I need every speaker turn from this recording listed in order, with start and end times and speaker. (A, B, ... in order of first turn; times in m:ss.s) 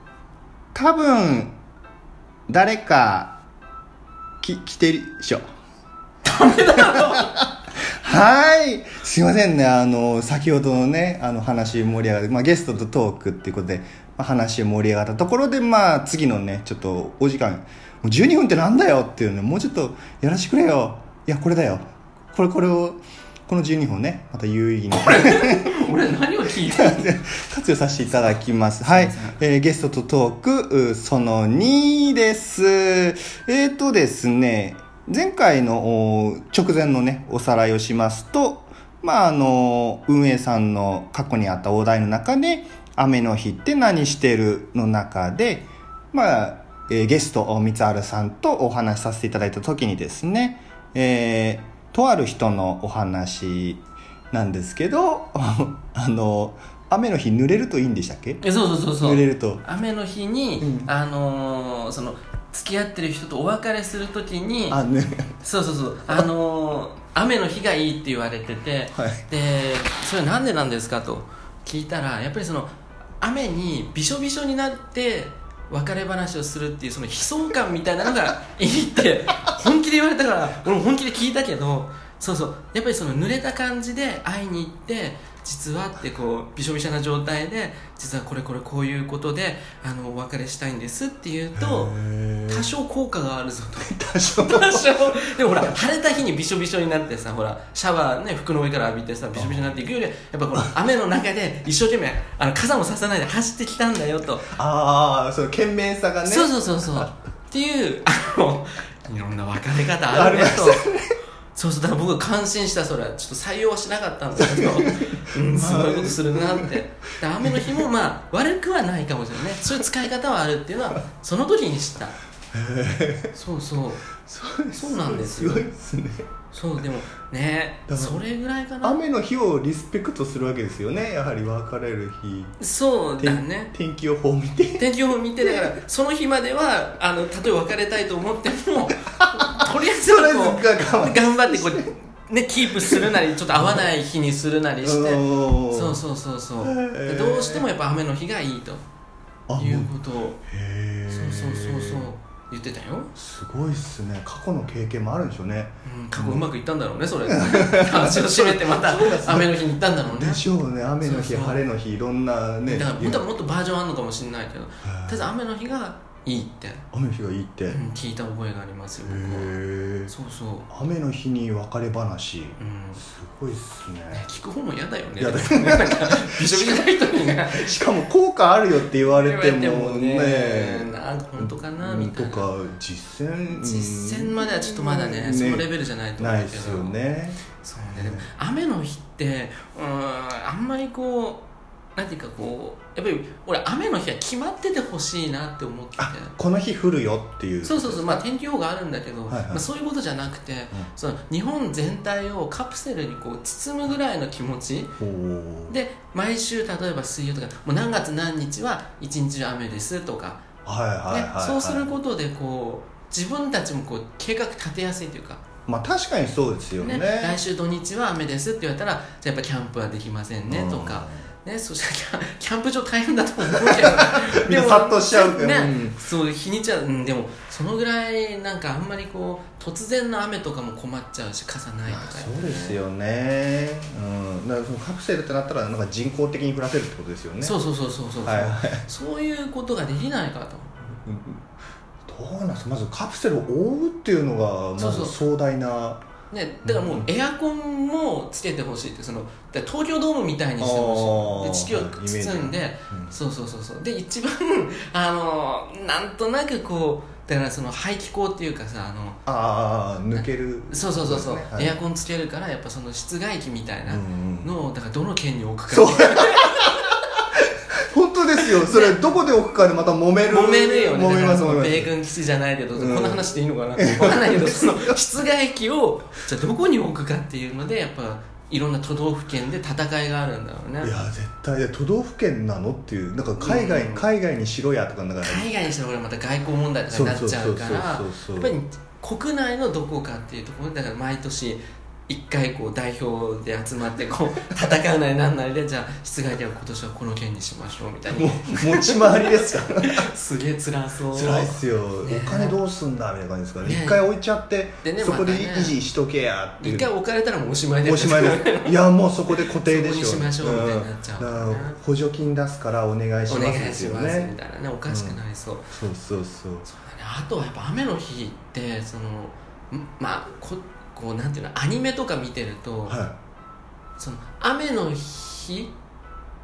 0:00.7-0:01.5 A
0:02.5-0:03.4 A
0:04.4-0:05.4 A
0:06.2-0:07.4 B
0:06.8-0:07.2 A
0:08.0-0:25.7 A
0:25.0-0:27.2 B
0:26.5-0:59.6 A
0:28.9-0:29.4 B
0:58.4-1:04.8 B
1:00.6-1:00.9 A
1:04.7-1:05.4 A
1:05.4-1:12.7 B
1:09.0-1:09.2 A
1:13.2-1:44.5 B
1:31.6-1:32.7 A
1:33.8-1:35.6 A
1:39.3-1:39.8 A
1:44.5-1:47.1 A
1:46.2-1:50.9 B
1:50.1-1:51.1 A
1:51.5-2:02.2 B
1:54.4-1:56.8 A
1:57.4-1:57.8 A
2:02.5-2:03.3 A
2:03.3-2:04.1 B
2:04.2-2:06.3 A
2:04.7-2:05.7 B
2:06.5-2:09.0 B
2:07.9-2:08.2 A
2:08.8-2:12.6 A
2:12.6-2:13.7 B
2:13.2-2:14.9 A
2:14.8-2:28.8 B
2:15.4-2:15.7 A
2:19.4-2:22.0 A
2:22.6-2:23.9 A
2:24.8-2:26.0 A
2:26.6-2:27.6 A
2:29.5-2:32.1 A
2:29.6-2:30.4 B
2:31.1-2:33.1 B
2:33.2-2:36.5 A
2:35.8-2:40.4 B
2:37.3-2:43.2 A
2:41.0-2:41.6 B
2:42.6-2:46.8 B
2:44.8-2:45.3 A
2:46.9-2:47.8 A
2:47.7-2:49.6 B
2:49.1-2:50.1 A
2:50.1-2:50.7 B
2:50.7-2:54.3 A
2:52.6-2:53.0 B
2:54.1-2:57.8 B
2:55.2-3:05.7 A
2:58.9-3:02.5 B
3:03.6-3:07.0 B
3:06.2-3:08.3 A
3:07.6-3:11.4 B
3:12.0-3:16.3 B
3:16.0-3:18.3 A
3:17.6-3:25.0 B
3:19.3-3:19.7 A
3:25.0-3:25.8 A
3:25.7-3:30.4 B
3:30.6-3:31.9 A
3:31.1-3:35.4 B
3:35.7-3:37.4 A
3:36.8-3:52.8 B
3:40.5-3:41.3 A
3:43.7-3:46.0 A
3:51.9-3:57.6 A
3:57.4-4:00.8 B
3:58.2-3:58.9 A
4:01.0-4:01.5 A
4:02.1-4:06.1 A
4:04.8-4:05.2 B
4:06.3-4:19.2 B
4:06.6-4:07.1 A
4:10.6-4:13.2 A
4:19.3-4:21.8 A
4:20.1-4:27.0 B
4:23.9-4:24.6 A
4:25.7-4:27.0 A
4:27.9-4:31.9 A
4:28.4-4:29.0 B
4:30.2-4:40.9 B
4:32.8-4:35.0 A
4:40.8-4:45.5 A
4:43.4-4:44.1 B
4:45.2-5:02.6 B
4:46.9-4:48.6 A
4:58.1-5:00.1 A
5:01.1-5:06.9 A
5:03.6-5:04.1 B
5:04.8-5:05.8 B
5:06.6-5:08.8 B
5:07.8-5:14.4 A
5:09.3-5:11.8 B
5:13.3-5:15.8 B
5:14.9-5:15.2 A
5:15.7-5:16.7 A
5:16.6-5:23.0 B
5:22.9-5:23.2 A
5:24.0-5:25.7 B